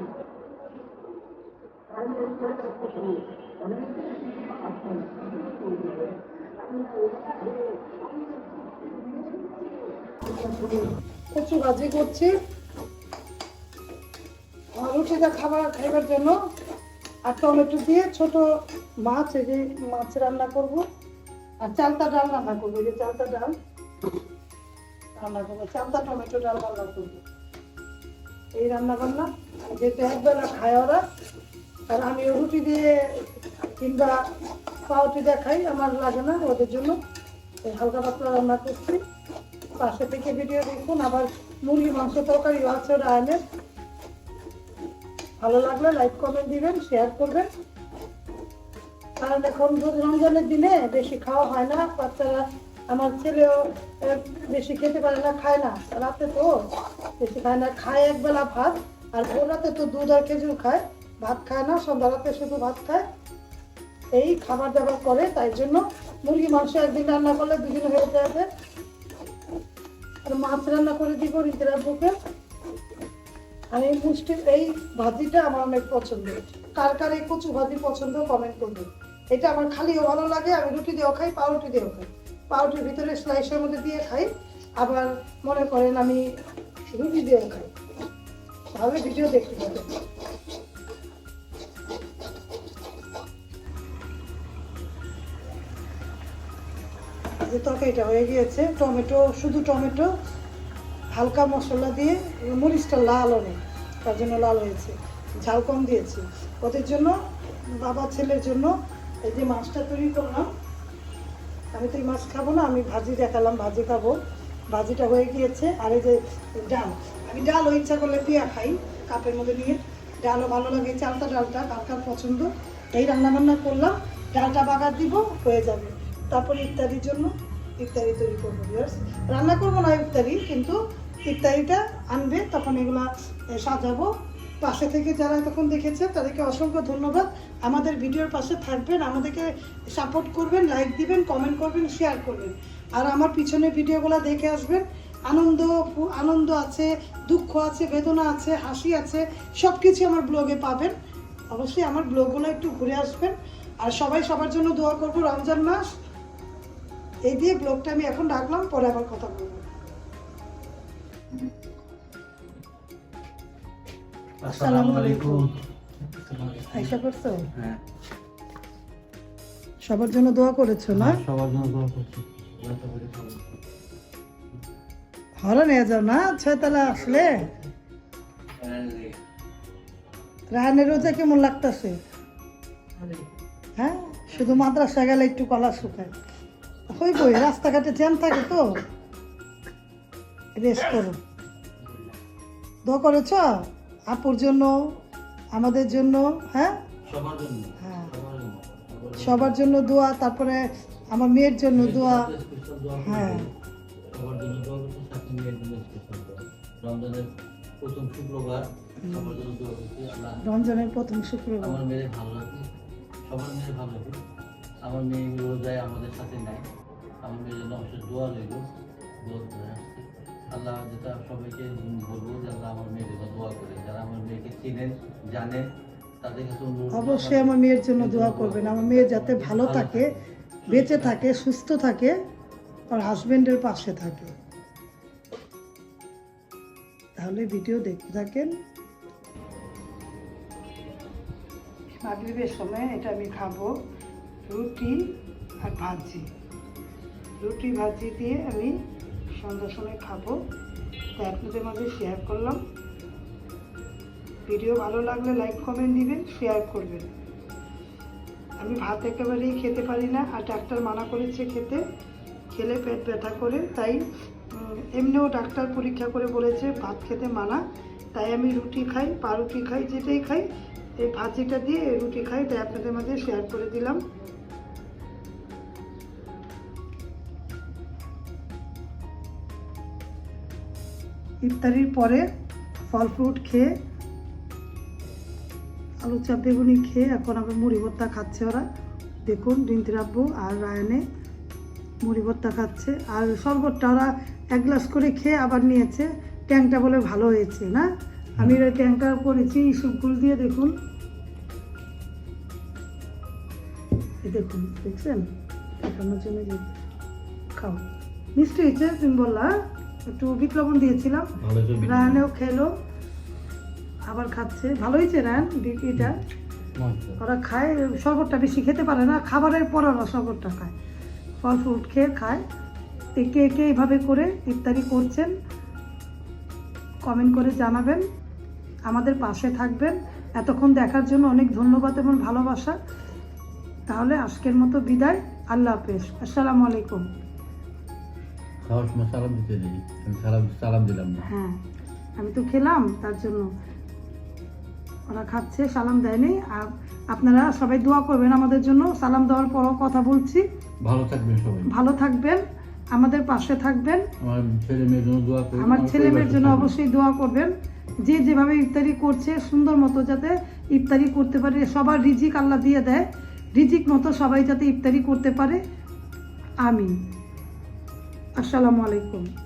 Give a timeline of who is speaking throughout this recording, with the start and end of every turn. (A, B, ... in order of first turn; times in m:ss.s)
0:11.3-0:12.3 A
0:14.7-0:16.3 A
0:17.3-0:18.4 A
0:19.0-0:20.8 A
0:21.6-0:23.5 A
0:25.2-0:27.2 A
0:28.6-0:31.0 A
0:31.9-0:34.2 A
0:34.9-0:37.0 A
0:37.6-0:39.0 A
0:39.8-0:43.4 A
0:45.4-0:47.5 A
0:49.2-0:56.6 A
0:57.2-1:03.0 A
1:04.1-1:08.5 A
1:10.2-1:12.1 A
1:13.7-1:24.3 A
1:24.8-1:26.2 A
1:26.9-1:27.7 A
1:28.7-1:29.9 A
1:37.4-1:40.1 A
1:41.1-1:47.1 A
1:47.8-1:48.7 A
1:49.2-1:50.5 A
1:51.7-1:54.1 A
1:54.7-2:14.1 A
2:14.6-2:30.9 A
2:31.5-2:35.8 A
2:37.2-2:39.6 A
2:44.4-2:47.0 B
2:44.5-2:45.5 A
2:46.7-2:47.5 A
2:47.5-2:47.8 B
2:49.8-2:51.2 A
2:50.9-2:53.4 B
2:55.4-2:57.5 A
2:56.8-2:57.5 B
2:58.6-2:59.2 B
3:00.5-3:02.0 A
3:03.8-3:06.1 A
3:06.9-3:08.7 A
3:10.6-3:11.2 A
3:12.9-3:14.7 A
3:15.5-3:16.8 A
3:17.1-3:19.6 B
3:17.8-3:18.1 A
3:19.2-3:22.3 A
3:21.7-3:23.5 B
3:23.0-3:23.5 A
3:24.1-3:27.3 B
3:27.8-3:30.4 B
3:29.0-3:29.4 A
3:30.4-3:31.8 A
3:31.6-3:32.7 B
3:33.2-3:34.2 B
3:34.8-3:36.6 B
3:37.2-3:38.6 B
3:39.2-3:45.7 B
3:46.2-3:51.2 B
3:46.9-3:50.1 A
3:50.7-3:52.2 A
3:52.9-3:54.3 A
3:57.2-3:58.5 A
4:02.0-4:03.7 A
4:04.5-4:05.0 A
4:05.6-4:06.2 A
4:07.4-4:08.7 A
4:09.4-4:10.4 A
4:11.2-4:12.6 A
4:14.5-4:17.1 A
4:18.6-4:21.8 A
4:22.5-4:27.6 A
4:28.1-4:30.4 A
4:31.0-4:34.0 A
4:41.4-4:42.2 A
4:42.9-4:43.7 A
4:46.0-4:48.6 A
4:49.3-4:51.0 A
4:52.0-5:00.7 A
5:04.2-5:05.3 A
5:05.8-5:06.7 A
5:07.6-5:07.8 A
5:08.4-5:09.5 A
5:10.1-5:12.7 A
5:11.4-5:12.2 B
5:14.1-5:16.2 A
5:16.7-5:17.2 B
5:17.2-5:20.7 A
5:21.4-5:22.4 A
5:23.2-5:25.3 A
5:27.1-5:28.0 A
5:28.9-5:32.8 A
5:33.9-5:37.0 A
5:38.6-5:41.3 B
5:41.2-5:41.6 A
5:42.2-5:43.5 A
5:45.1-5:50.4 A
5:50.8-5:51.7 B
5:51.7-5:52.4 A
5:52.9-5:54.1 A
5:54.2-5:56.7 B
5:55.6-5:57.5 A
5:58.0-6:05.6 A
6:06.6-6:06.9 A
6:08.4-6:09.3 A